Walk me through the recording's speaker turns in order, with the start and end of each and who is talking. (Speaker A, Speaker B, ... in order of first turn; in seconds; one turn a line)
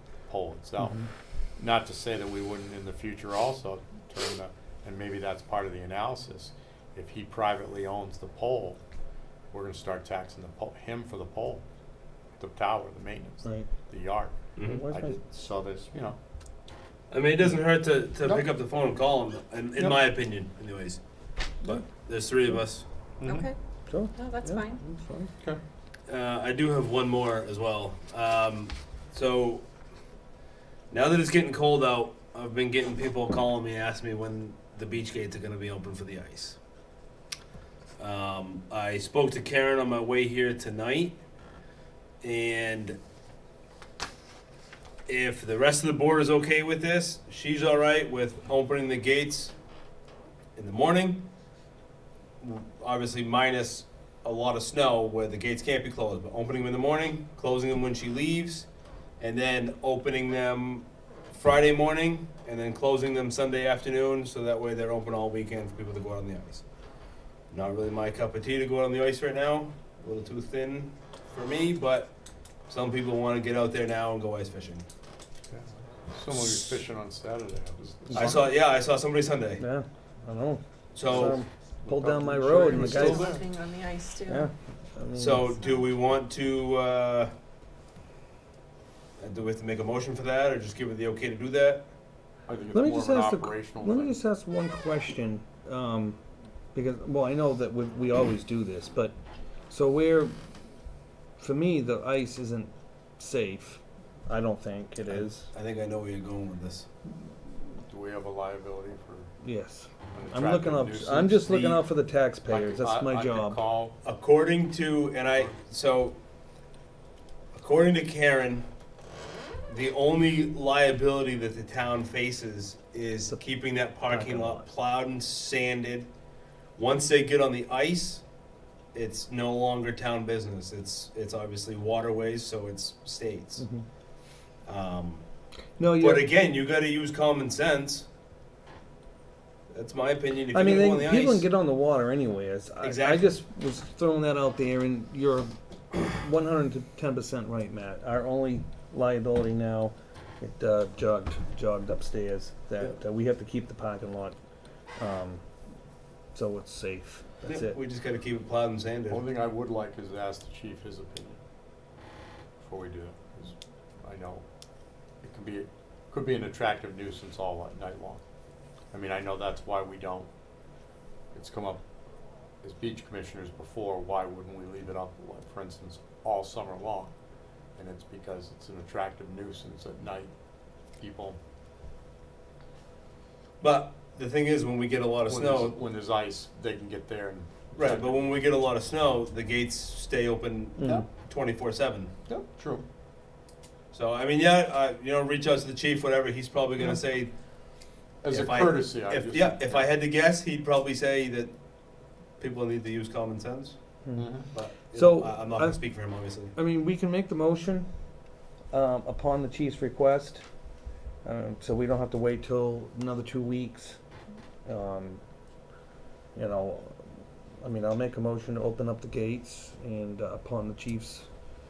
Speaker A: 0.2-8.8
Speaker A: 9.5-11.6
Speaker A: 12.4-16.2
Speaker B: 13.4-13.7
Speaker C: 14.6-14.8
Speaker B: 14.6-15.2
Speaker C: 17.1-21.0
Speaker C: 21.6-22.9
Speaker A: 23.2-23.5
Speaker D: 23.2-23.6
Speaker B: 23.9-24.6
Speaker D: 24.1-24.8
Speaker A: 24.8-25.6
Speaker C: 26.1-29.6
Speaker C: 30.9-36.6
Speaker C: 38.0-41.2
Speaker C: 42.2-43.0
Speaker C: 45.1-49.5
Speaker C: 50.6-51.3
Speaker C: 52.4-58.7
Speaker C: 59.2-66.7
Speaker C: 67.5-72.1
Speaker C: 72.7-74.9
Speaker A: 75.5-78.5
Speaker B: 78.1-78.4
Speaker C: 78.2-79.6
Speaker B: 79.6-83.3
Speaker C: 80.9-81.4
Speaker A: 81.1-83.4
Speaker D: 82.7-84.5
Speaker B: 84.3-85.6
Speaker C: 85.2-87.3
Speaker C: 89.2-91.9
Speaker A: 92.5-94.2
Speaker B: 92.7-96.2
Speaker B: 96.7-99.2
Speaker B: 99.7-100.4
Speaker B: 101.4-105.5
Speaker C: 105.1-106.9
Speaker A: 107.9-109.3
Speaker B: 109.4-113.6
Speaker A: 110.1-111.5
Speaker C: 111.5-111.8
Speaker A: 112.5-114.0
Speaker C: 114.0-116.2
Speaker C: 117.5-118.7
Speaker C: 119.7-126.1
Speaker B: 124.0-124.7
Speaker C: 126.8-128.2
Speaker C: 128.9-133.7
Speaker B: 133.6-133.8
Speaker C: 134.7-135.3
Speaker B: 135.8-136.3
Speaker C: 136.0-138.1
Speaker C: 139.7-141.5
Speaker B: 140.5-154.4
Speaker C: 142.8-143.3
Speaker B: 155.0-155.4
Speaker B: 156.3-157.8
Speaker C: 157.5-159.2
Speaker A: 159.1-161.4
Speaker A: 162.6-164.4
Speaker A: 165.2-168.2
Speaker A: 168.9-170.3
Speaker A: 171.3-171.8
Speaker A: 172.6-177.2
Speaker A: 177.8-180.3
Speaker A: 181.0-181.4
Speaker C: 183.6-185.8
Speaker A: 185.3-188.2
Speaker C: 187.8-192.1
Speaker B: 190.8-191.1
Speaker A: 192.3-192.8
Speaker C: 193.9-197.4
Speaker A: 198.2-199.9
Speaker C: 198.3-201.6
Speaker C: 202.4-206.6
Speaker B: 204.0-204.3
Speaker A: 204.2-204.5
Speaker B: 204.9-205.8
Speaker B: 206.6-207.9
Speaker B: 208.7-210.4
Speaker B: 211.2-214.0
Speaker B: 214.7-215.2
Speaker B: 216.3-217.0
Speaker B: 217.6-221.3